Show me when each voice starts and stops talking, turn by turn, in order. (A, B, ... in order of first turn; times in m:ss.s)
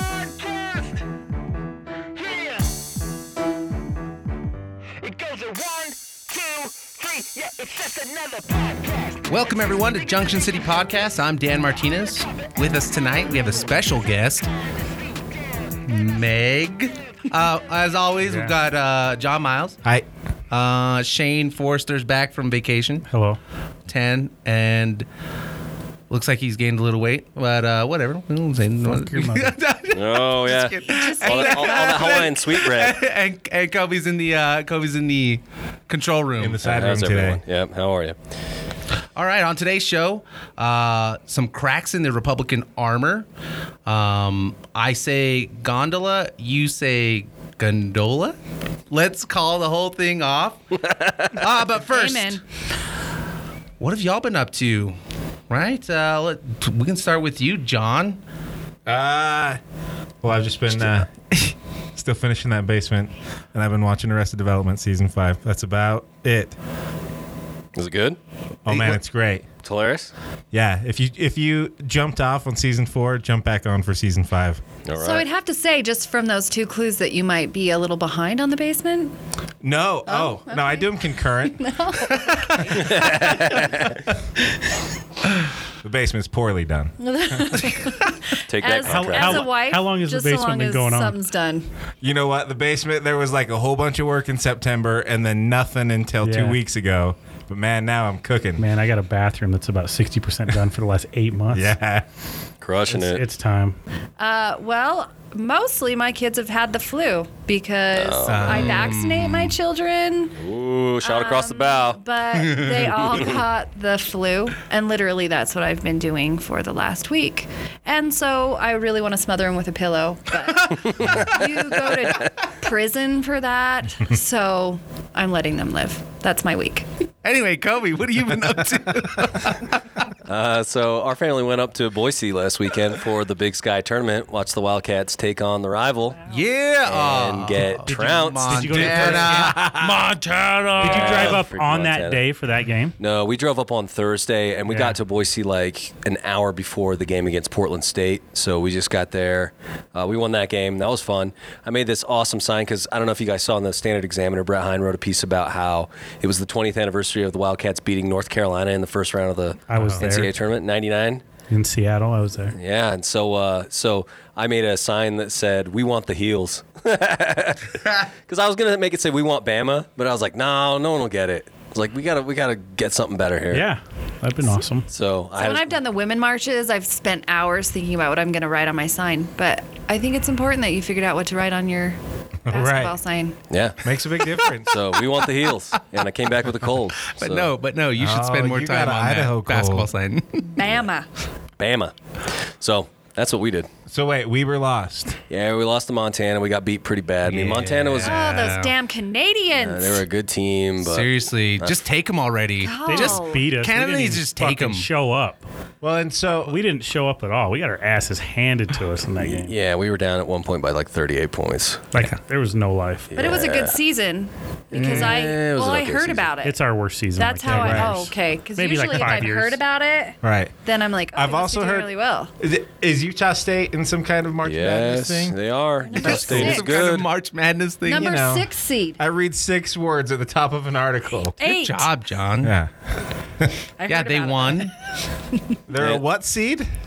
0:09.1-0:14.5 A
0:15.8-0:19.8 A
0:18.2-0:18.5 B
0:20.5-0:23.1 A
0:23.1-0:23.4 B
0:23.9-0:25.0 A
0:26.1-0:36.6 A
0:28.9-0:29.6 B
0:29.9-0:33.0 C
0:30.9-0:32.0 D
0:36.4-0:37.4 E
0:36.6-0:38.2 C
0:39.1-0:43.3 A
0:43.8-0:48.4 A
0:48.9-0:50.6 A
0:50.9-0:51.3 C
0:51.3-0:52.4 A
0:51.8-0:52.4 D
0:53.8-0:55.0 A
0:55.5-0:58.2 A
0:58.9-0:59.6 E
1:00.2-1:01.1 E
1:01.9-1:06.5 E
1:07.7-1:09.0 C
1:08.6-1:09.5 E
1:09.6-1:10.1 C
1:10.5-1:14.6 E
1:14.8-1:15.2 C
1:15.0-1:19.1 D
1:19.6-1:24.1 E
1:20.0-1:22.8 D
1:22.7-1:23.9 C
1:25.8-1:27.8 E
1:27.0-1:31.7 D
1:28.5-1:29.5 C
1:28.8-1:31.2 B
1:32.0-1:38.6 E
1:36.2-1:36.6 B
1:38.6-1:41.7 B
1:41.5-1:42.0 E
1:42.6-1:43.2 C
1:42.9-1:43.8 B
1:44.2-1:50.4 D
1:47.9-1:48.8 C
1:48.3-1:49.6 A
1:50.4-1:52.0 C
1:51.0-2:06.8 D
1:52.3-1:52.8 A
1:53.0-1:53.3 C
2:00.4-2:02.2 A
2:07.2-2:10.1 A
2:10.2-2:16.3 C
2:16.2-2:21.4 A
2:16.8-2:19.2 C
2:17.6-2:19.7 B
2:18.8-2:20.0 E
2:20.8-2:23.0 B
2:20.8-2:22.2 C
2:23.0-2:41.2 C
2:24.7-2:24.9 B
2:39.7-2:40.3 B
2:39.8-2:40.0 E
2:41.5-2:42.5 B
2:42.6-2:53.6 C
2:53.5-2:54.9 B
2:54.9-2:55.8 C
2:55.4-3:03.4 D
3:02.4-3:02.9 E
3:03.5-3:03.9 C
3:03.8-3:04.8 E
3:04.6-3:07.5 C
3:07.0-3:10.6 A
3:08.0-3:09.9 E
3:10.5-3:11.1 D
3:11.6-3:13.7 C
3:13.9-3:15.2 E
3:15.3-3:18.2 C
3:17.2-3:18.7 A
3:18.0-3:20.0 D
3:19.5-3:21.8 C
3:20.8-3:24.9 A
3:22.6-3:23.4 D
3:22.8-3:25.4 B
3:25.8-3:26.6 E
3:26.4-3:29.5 B
3:29.2-3:31.9 C
3:31.9-3:33.1 B
3:33.1-3:33.8 C
3:33.1-3:36.5 D
3:34.7-3:36.3 C
3:36.4-3:39.6 B
3:37.2-3:42.3 D
3:37.5-3:38.0 E
3:40.2-3:40.5 E
3:41.1-3:41.9 E
3:42.4-3:45.4 E
3:44.4-3:47.1 C
3:45.8-3:46.8 D
3:46.0-3:48.1 A
3:47.8-3:49.0 D
3:47.9-3:51.5 E
3:51.4-3:51.9 D
3:51.6-3:52.6 A
3:52.4-3:52.7 E
3:53.8-3:54.7 D
3:53.9-3:54.7 A
3:55.7-3:56.7 E